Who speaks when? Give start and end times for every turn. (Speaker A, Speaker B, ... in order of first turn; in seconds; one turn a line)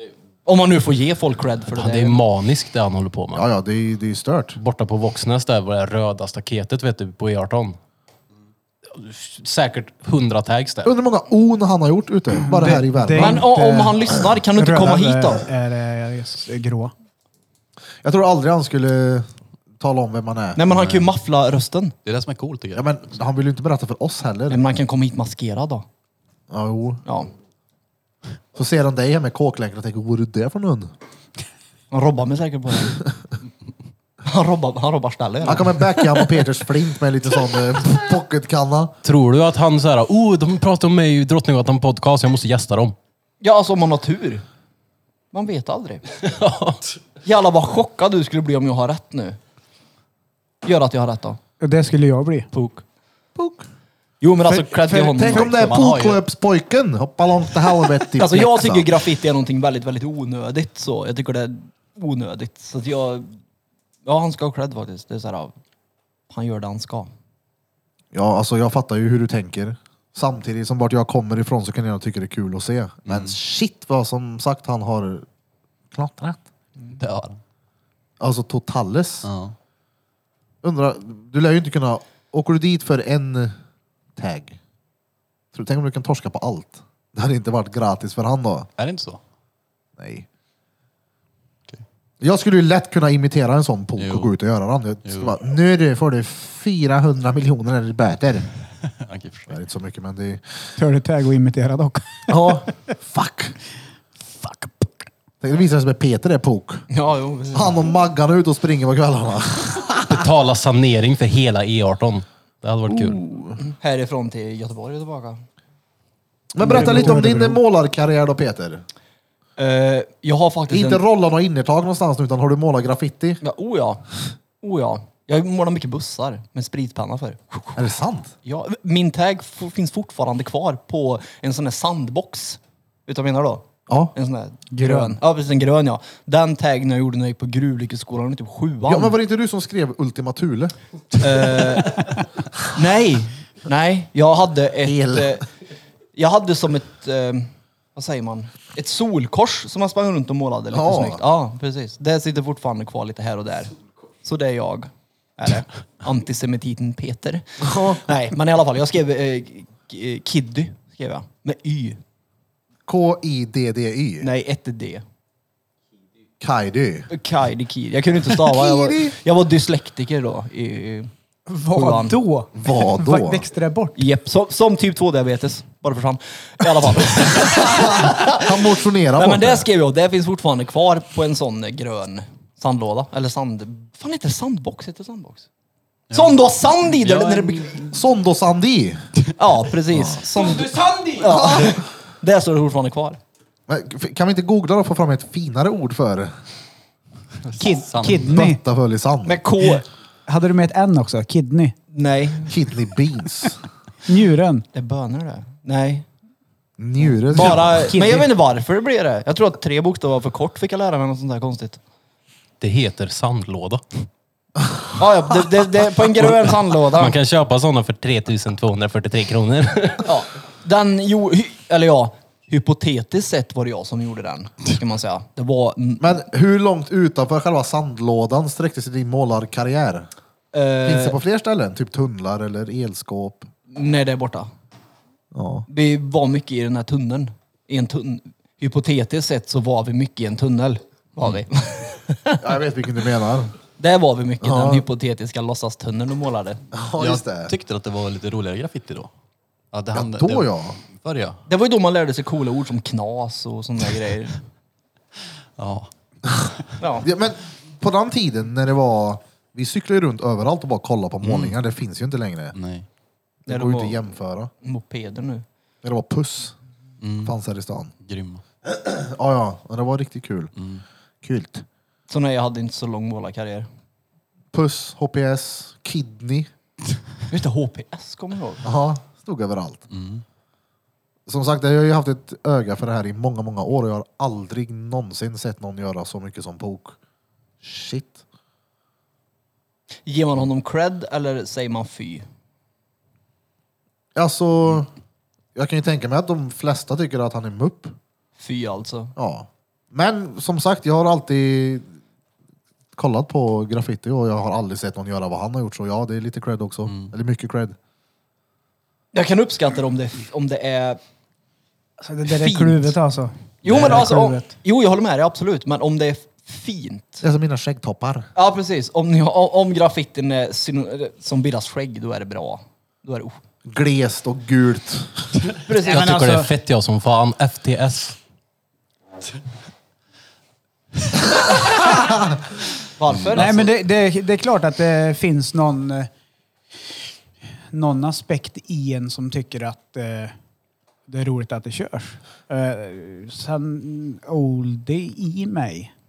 Speaker A: 0.5-2.2
Speaker B: 1.7-3.5
Speaker C: 3.3-4.6
Speaker B: 4.6-7.8
Speaker B: 8.9-10.9
Speaker C: 10.8-13.5
Speaker D: 12.4-16.9
Speaker A: 13.2-15.5
Speaker C: 18.0-19.3
Speaker C: 19.8-20.6
Speaker A: 20.6-21.9
Speaker E: 20.7-21.1
Speaker E: 22.1-22.9
Speaker C: 22.8-24.6
Speaker A: 24.5-25.9
Speaker C: 26.5-27.0
Speaker A: 27.1-27.3
Speaker C: 28.6-30.9
Speaker A: 31.9-33.0
Speaker A: 34.2-36.0
Speaker C: 35.4-39.0
Speaker B: 39.0-43.0
Speaker A: 43.4-44.4
Speaker A: 45.3-46.0
Speaker B: 46.2-46.8
Speaker A: 47.2-49.4
Speaker A: 50.6-51.4
Speaker D: 51.6-52.5
Speaker A: 52.5-52.8
Speaker C: 53.4-53.7
Speaker A: 54.2-55.8
Speaker C: 54.5-58.9
Speaker E: 55.3-56.2
Speaker A: 58.2-63.3
Speaker A: 64.0-65.5
Speaker A: 66.3-67.1
Speaker C: 68.1-75.3
Speaker E: 73.1-73.3
Speaker C: 75.9-76.4
Speaker E: 77.0-77.4
Speaker C: 78.2-79.3
Speaker E: 79.2-79.5
Speaker C: 80.6-83.5
Speaker C: 84.2-84.6
Speaker C: 85.5-88.7
Speaker E: 88.8-89.2
Speaker C: 90.0-90.3
Speaker C: 92.2-98.5
Speaker E: 94.0-94.3
Speaker E: 95.0-95.3
Speaker E: 99.0-99.5
Speaker C: 99.5-100.4
Speaker D: 100.8-102.6
Speaker C: 102.3-103.5
Speaker D: 104.4-105.0
Speaker C: 105.4-106.8
Speaker A: 106.9-107.8
Speaker C: 107.5-110.2
Speaker B: 110.1-113.2
Speaker C: 112.9-113.6
Speaker A: 113.6-115.4
Speaker C: 116.5-118.8
Speaker D: 116.6-117.6
Speaker A: 116.7-117.2
Speaker A: 119.6-121.0
Speaker C: 120.7-123.4
Speaker A: 123.4-124.1
Speaker A: 124.6-127.8
Speaker C: 127.8-128.3
Speaker A: 128.4-139.2
Speaker C: 133.9-134.1
Speaker D: 134.7-135.2
Speaker C: 138.9-141.6
Speaker A: 141.2-142.1
Speaker A: 142.7-145.5
Speaker C: 144.8-145.4
Speaker A: 146.2-162.0
Speaker C: 150.7-151.2
Speaker C: 157.6-158.0
Speaker C: 162.9-164.3
Speaker A: 164.2-165.0
Speaker C: 166.4-167.1
Speaker A: 167.1-171.1
Speaker C: 168.4-169.2
Speaker D: 171.5-174.0
Speaker A: 171.7-172.2
Speaker C: 172.6-173.5
Speaker A: 174.0-185.5
Speaker C: 177.6-179.7
Speaker E: 186.1-187.8
Speaker A: 186.1-187.9
Speaker C: 187.9-189.1
Speaker A: 189.4-193.2
Speaker C: 191.2-191.8
Speaker C: 193.7-196.3
Speaker D: 197.6-198.6
Speaker E: 197.6-198.4
Speaker C: 198.2-199.4
Speaker A: 199.2-199.8
Speaker D: 199.6-201.8
Speaker A: 201.9-202.6
Speaker C: 202.5-203.6
Speaker D: 204.1-204.7
Speaker A: 204.7-206.1
Speaker C: 206.8-207.9
Speaker A: 207.3-211.8
Speaker D: 207.3-208.3
Speaker B: 212.6-213.8
Speaker A: 215.0-217.2
Speaker B: 216.9-220.1
Speaker A: 220.0-226.2
Speaker C: 226.0-230.1
Speaker A: 230.5-231.2
Speaker C: 230.8-233.5
Speaker A: 233.7-234.5
Speaker C: 235.3-235.7
Speaker A: 235.7-242.4
Speaker C: 242.4-243.5
Speaker A: 243.8-246.6
Speaker C: 244.4-244.8
Speaker C: 246.7-247.5
Speaker E: 247.0-249.1
Speaker E: 249.7-251.4
Speaker C: 249.9-250.8
Speaker A: 251.5-254.4
Speaker E: 255.6-255.9
Speaker A: 256.8-257.1
Speaker C: 257.0-262.6
Speaker E: 261.2-261.6
Speaker E: 262.6-262.9
Speaker C: 263.5-264.5
Speaker A: 263.5-264.0
Speaker A: 264.6-265.4
Speaker C: 265.8-266.6
Speaker E: 267.0-267.3
Speaker C: 267.2-267.9
Speaker E: 268.0-268.4
Speaker C: 268.6-270.5
Speaker E: 270.6-270.8
Speaker C: 271.2-271.6
Speaker A: 272.1-273.7
Speaker C: 274.5-276.5
Speaker A: 277.3-278.6
Speaker C: 278.6-279.8
Speaker E: 279.9-280.2
Speaker C: 281.3-287.0
Speaker C: 287.6-288.2
Speaker A: 290.1-292.2
Speaker C: 294.1-294.9
Speaker C: 295.6-298.0
Speaker A: 298.4-299.1
Speaker C: 299.2-301.9
Speaker C: 302.9-307.8
Speaker A: 309.1-311.0
Speaker D: 312.0-314.5
Speaker A: 312.3-313.0
Speaker A: 313.6-317.2
Speaker E: 313.7-314.1
Speaker C: 317.2-318.3
Speaker A: 318.4-323.4
Speaker C: 323.6-325.3
Speaker A: 325.7-326.2
Speaker D: 325.8-326.5
Speaker B: 325.8-328.2
Speaker A: 333.0-333.7
Speaker D: 333.3-336.1
Speaker D: 337.7-340.3
Speaker D: 341.1-345.9